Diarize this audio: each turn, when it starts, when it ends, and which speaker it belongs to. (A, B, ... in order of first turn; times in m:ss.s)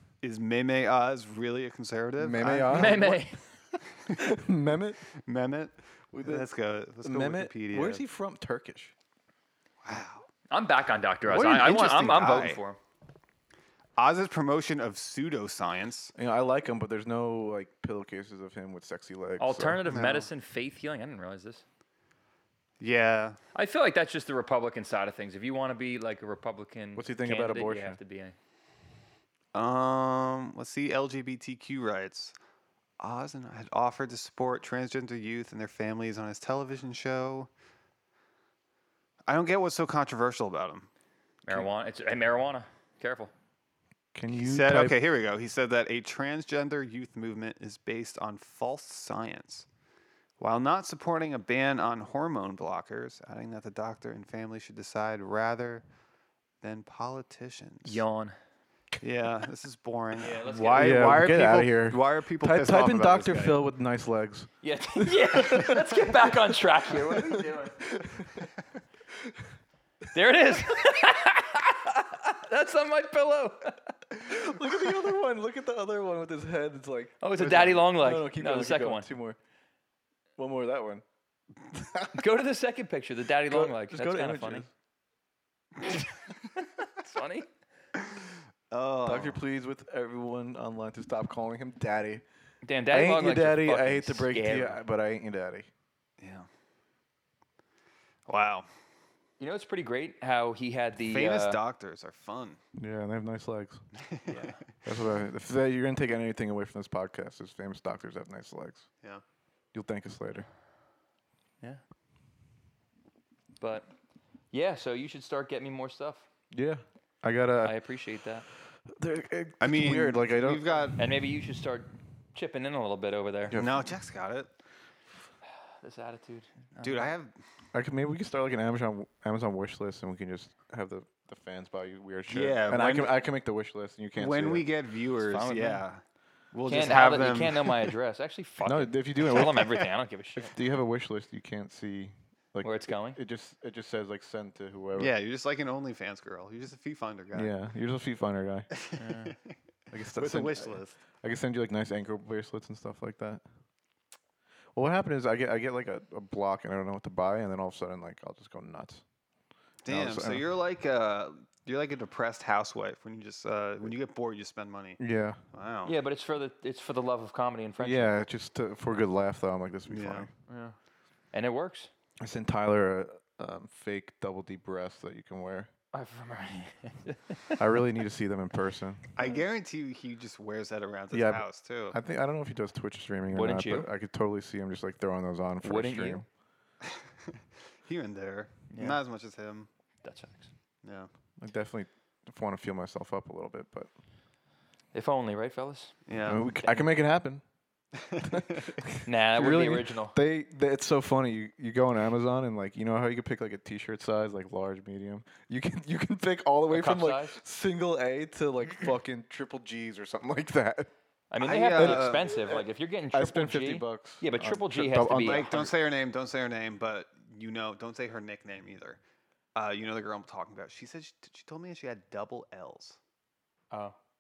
0:00.2-0:03.2 A
0:02.2-0:03.2 B
0:02.7-0:03.4 C
0:04.0-0:04.2 A
0:04.1-0:05.0 B
0:05.2-0:08.0 A
0:06.1-0:06.5 B
0:07.0-0:08.9 B
0:09.8-0:10.3 A
0:10.5-0:12.8 C
0:11.3-0:12.0 B
0:11.4-0:12.6 A
0:14.0-0:16.1 A
0:16.2-0:19.8 B
0:19.4-0:21.6 C
0:19.9-0:20.3 A
0:22.8-0:23.4 A
0:23.6-0:28.4 C
0:27.0-0:28.0 B
0:29.5-0:32.4 A
0:33.0-0:37.5 A
0:39.3-0:40.9 A
0:41.5-0:43.3 C
0:44.1-0:45.0 B
0:44.4-0:49.7 A
0:50.4-0:55.8 A
0:56.6-0:58.0 A
0:57.8-0:58.4 C
0:59.0-1:03.6 A
1:00.2-1:01.3 C
1:00.8-1:06.2 B
1:04.6-1:07.9 C
1:06.9-1:08.5 B
1:10.1-1:13.9 C
1:14.2-1:19.4 B
1:17.2-1:19.1 C
1:20.4-1:21.0 B
1:21.7-1:22.2 B
1:22.1-1:24.7 C
1:23.5-1:24.7 B
1:26.6-1:27.5 C
1:28.0-1:29.4 A
1:29.0-1:32.2 B
1:32.6-1:34.8 C
1:32.9-1:35.7 B
1:36.2-1:36.5 A
1:38.3-1:38.7 A
1:39.4-1:41.6 C
1:41.0-1:42.6 A
1:42.8-1:43.8 B
1:44.0-1:44.6 A
1:44.3-1:44.6 C
1:44.8-1:48.9 B
1:49.7-1:50.5 B
1:53.6-1:53.9 C
1:54.5-1:56.3 C
1:56.5-1:57.8 B
1:57.6-1:58.5 C
1:58.9-2:01.0 B
1:59.6-2:01.0 A
2:01.0-2:03.6 C
2:03.5-2:04.0 B
2:03.6-2:04.5 A
2:05.8-2:07.1 C
2:06.8-2:07.3 A
2:07.7-2:14.7 B
2:12.3-2:13.2 A
2:14.2-2:16.0 A
2:15.2-2:15.8 C
2:16.5-2:17.9 A
2:16.7-2:20.5 C
2:18.6-2:19.6 B
2:20.4-2:25.1 B
2:22.6-2:23.2 C
2:25.0-2:27.5 A
2:27.3-2:28.7 B
2:28.7-2:29.4 A
2:29.0-2:29.4 C
2:29.9-2:33.4 B
2:30.2-2:31.0 A
2:34.8-2:39.0 B
2:39.8-2:45.0 A
2:39.9-2:40.4 B
2:45.0-2:45.4 B
2:45.5-2:45.9 A
2:45.8-2:48.2 C
2:47.8-2:50.3 B
2:49.9-2:50.3 A
2:50.5-2:50.8 C
2:51.3-2:51.9 C
2:52.2-2:55.7 B
2:55.9-2:57.6 C
2:57.6-2:59.1 B
2:59.2-3:02.0 A
3:01.1-3:06.3 B
3:03.3-3:03.9 C
3:05.6-3:06.2 C
3:06.8-3:09.7 A
3:08.7-3:09.0 C
3:10.0-3:10.5 C
3:10.8-3:11.1 A
3:11.4-3:13.9 B
3:14.9-3:16.9 C
3:16.1-3:16.5 A
3:16.2-3:17.4 B
3:17.9-3:18.8 A
3:18.2-3:30.9 B
3:19.0-3:20.2 C
3:26.7-3:27.4 C
3:31.3-3:35.7 C
3:31.4-3:32.3 A
3:31.7-3:35.7 B
3:35.2-3:39.0 A
3:39.6-3:43.0 A